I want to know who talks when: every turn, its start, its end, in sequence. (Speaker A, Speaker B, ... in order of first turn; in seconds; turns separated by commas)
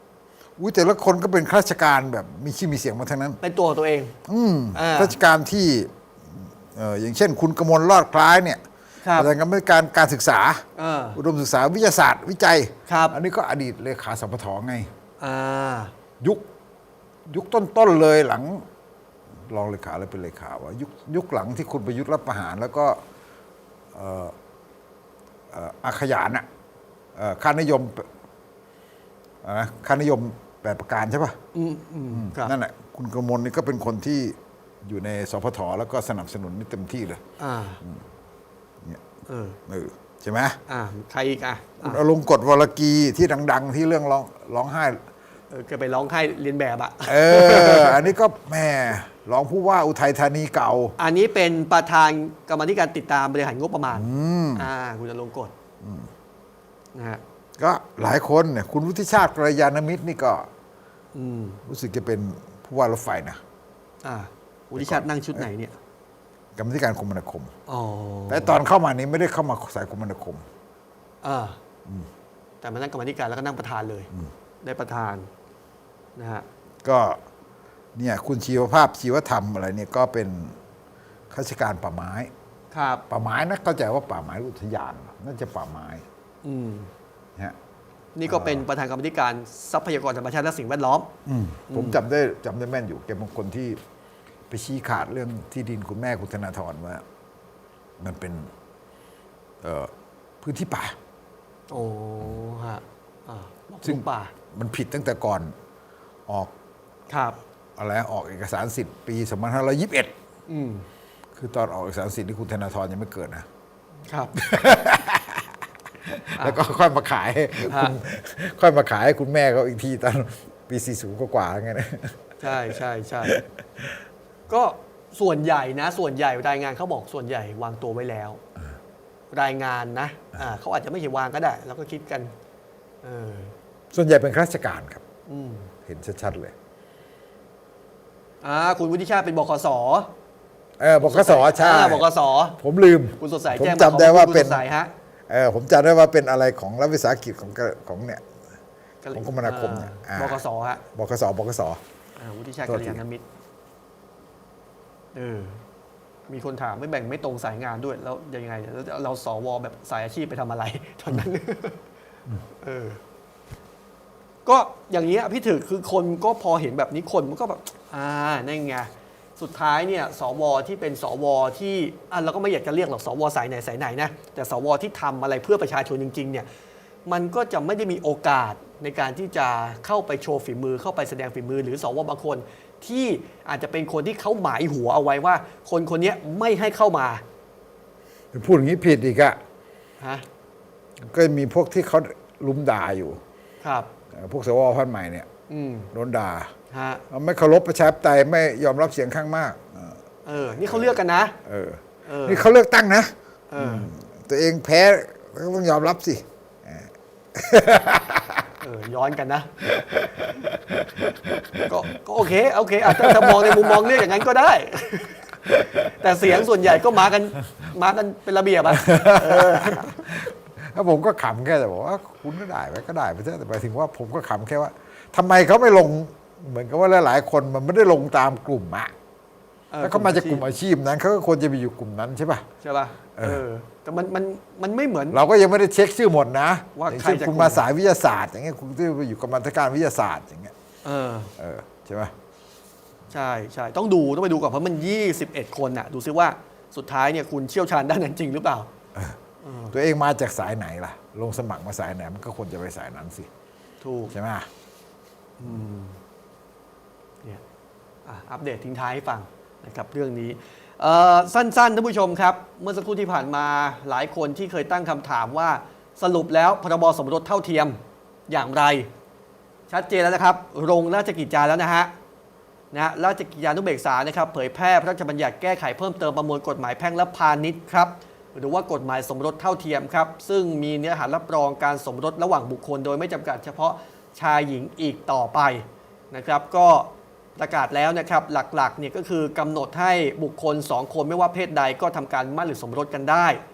Speaker A: 0.6-3.4, Speaker B: 3.4-4.1, Speaker A: 4.3-8.6, Speaker B: 4.7-5.2, Speaker B: 9.0-9.3, Speaker A: 9.1-14.9, Speaker B: 10.8-11.2, Speaker B: 12.9-13.2, Speaker B: 15.2-15.9, Speaker A: 16.2-16.4, Speaker A: 17.3-18.6, Speaker A: 19.5-23.0, Speaker A: 23.9-24.3, Speaker A: 25.5-26.4, Speaker A: 27.1-28.1, Speaker A: 29.4-31.4, Speaker B: 31.5-32.5, Speaker A: 32.1-37.2, Speaker B: 37.4-37.8, Speaker B: 39.3-39.6, Speaker A: 39.7-40.6, Speaker B: 40.7-42.0, Speaker A: 41.8-45.0, Speaker B: 45.5-48.1, Speaker A: 47.0-51.0, Speaker B: 51.0-55.5, Speaker A: 53.9-54.7, Speaker A: 55.8-56.1, Speaker B: 56.9-57.2, Speaker A: 57.6-60.5, Speaker B: 61.1-61.6, Speaker A: 61.6-63.4, Speaker B: 64.0-65.8, Speaker A: 64.8-65.5, Speaker A: 66.6-67.5, Speaker B: 67.7-68.6, Speaker A: 68.3-70.4, Speaker B: 71.2-71.6, Speaker B: 72.6-74.1, Speaker B: 74.6-75.3, Speaker B: 76.2-76.5, Speaker A: 76.8-77.2, Speaker A: 78.0-80.6, Speaker A: 81.3-82.3, Speaker B: 82.7-83.0, Speaker A: 83.1-86.0, Speaker B: 86.4-86.9, Speaker B: 88.2-91.1, Speaker A: 88.2-88.7, Speaker A: 91.2-93.8, Speaker B: 91.7-92.0, Speaker A: 94.5-97.0, Speaker A: 98.0-98.5, Speaker A: 99.6-101.0, Speaker B: 101.7-104.3, Speaker A: 103.8-105.5, Speaker A: 106.3-106.5, Speaker B: 107.1-107.4, Speaker A: 107.8-110.1, Speaker B: 110.5-110.9, Speaker A: 111.3-113.5, Speaker B: 114.1-114.3, Speaker A: 114.3-115.5, Speaker A: 116.0-124.0, Speaker B: 117.6-118.0, Speaker B: 122.4-123.4, Speaker B: 124.5-128.4, Speaker B: 129.3-132.3, Speaker B: 133.0-133.5, Speaker A: 133.9-135.0, Speaker B: 135.3-135.7, Speaker A: 135.8-136.5, Speaker B: 138.4-140.1, Speaker A: 140.8-144.6, Speaker B: 141.0-142.6, Speaker B: 143.2-144.9, Speaker A: 145.3-148.2, Speaker B: 149.0-150.8, Speaker A: 149.1-150.4, Speaker A: 150.9-151.8, Speaker B: 152.2-153.2, Speaker A: 152.7-153.0, Speaker B: 155.1-155.6, Speaker B: 156.3-161.8, Speaker B: 162.6-163.0, Speaker B: 164.4-176.5, Speaker B: 177.1-187.2, Speaker A: 188.3-189.4, Speaker B: 190.0-190.2, Speaker A: 191.0-193.2, Speaker B: 193.6-193.9, Speaker A: 194.1-195.3, Speaker B: 195.5-195.9, Speaker A: 195.9-196.5, Speaker B: 196.7-197.0, Speaker A: 197.1-200.0, Speaker B: 200.2-201.4, Speaker A: 200.5-208.4, Speaker B: 202.1-202.5, Speaker B: 203.5-203.9, Speaker B: 208.6-209.7, Speaker A: 209.6-211.6, Speaker B: 211.6-220.0, Speaker A: 212.8-214.1, Speaker A: 215.4-215.8, Speaker A: 218.7-228.9, Speaker B: 229.7-230.4, Speaker A: 229.8-232.4, Speaker B: 232.6-235.2, Speaker A: 233.2-233.4, Speaker A: 235.1-240.5, Speaker B: 236.7-237.7, Speaker B: 240.8-241.3, Speaker A: 241.4-242.1, Speaker B: 243.1-248.7, Speaker B: 249.4-249.8, Speaker A: 249.7-253.3, Speaker B: 253.8-254.1, Speaker A: 254.1-254.5, Speaker B: 255.4-256.0, Speaker B: 258.1-268.9, Speaker B: 269.7-271.9, Speaker B: 272.7-293.4